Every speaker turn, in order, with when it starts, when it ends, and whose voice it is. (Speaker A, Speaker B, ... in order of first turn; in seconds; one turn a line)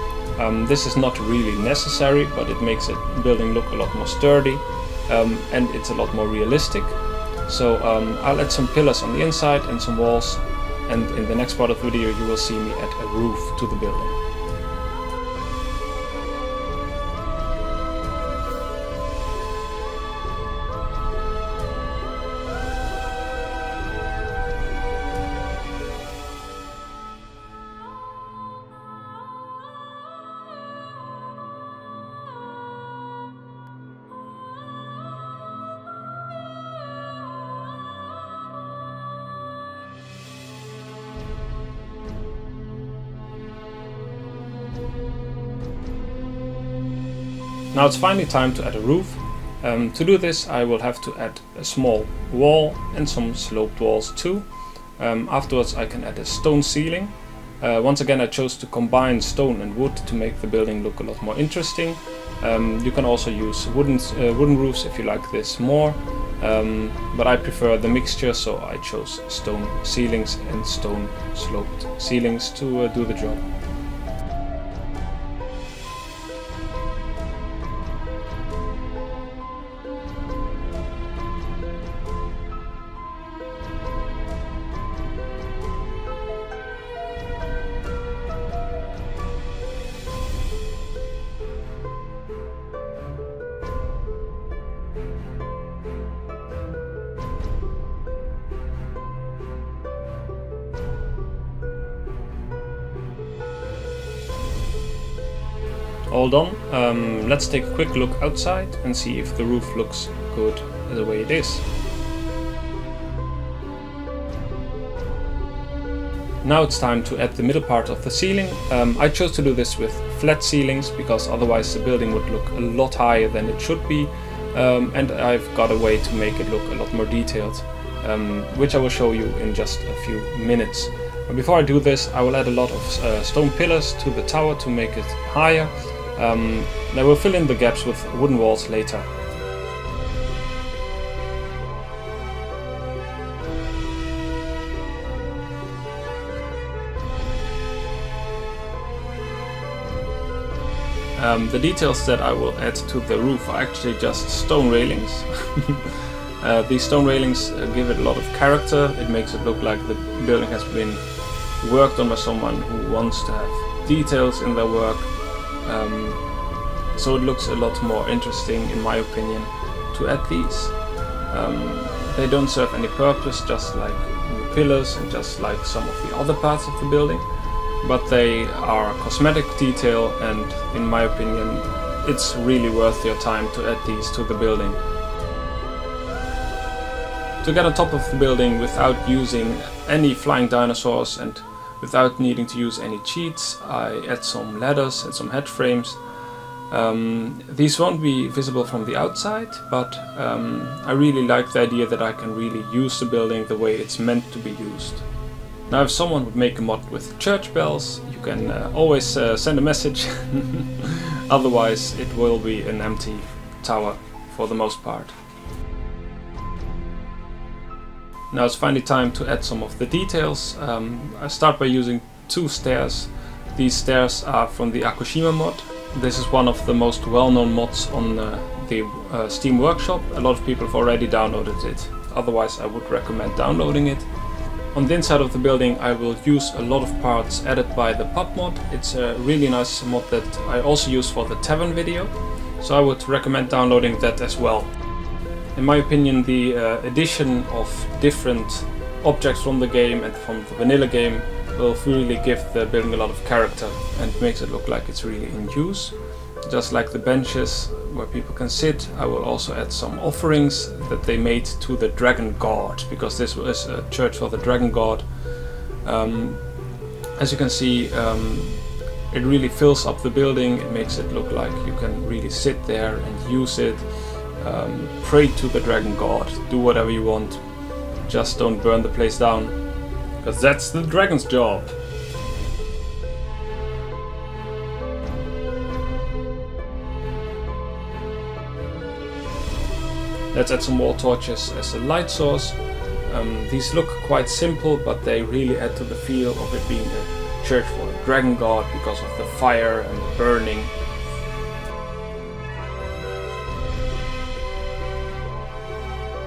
Speaker A: 0.4-14.2
Speaker A: 47.7-54.5
Speaker A: 55.0-73.4
Speaker A: 106.1-111.6
Speaker A: 116.4-139.1
Speaker A: 151.2-161.0
Speaker A: 161.6-165.1
Speaker A: 165.6-166.2
Speaker A: 166.9-170.8
Speaker A: 171.3-177.2
Speaker A: 177.8-184.8
Speaker A: 187.4-196.0
Speaker A: 196.7-205.1
Speaker A: 205.7-215.1
Speaker A: 218.3-234.1
Speaker A: 234.7-244.7
Speaker A: 245.5-255.9
Speaker A: 256.5-265.1
Speaker A: 265.8-266.4
Speaker A: 267.2-273.9
Speaker A: 274.4-277.4
Speaker A: 278.1-279.6
Speaker A: 280.2-281.7
Speaker A: 290.3-300.7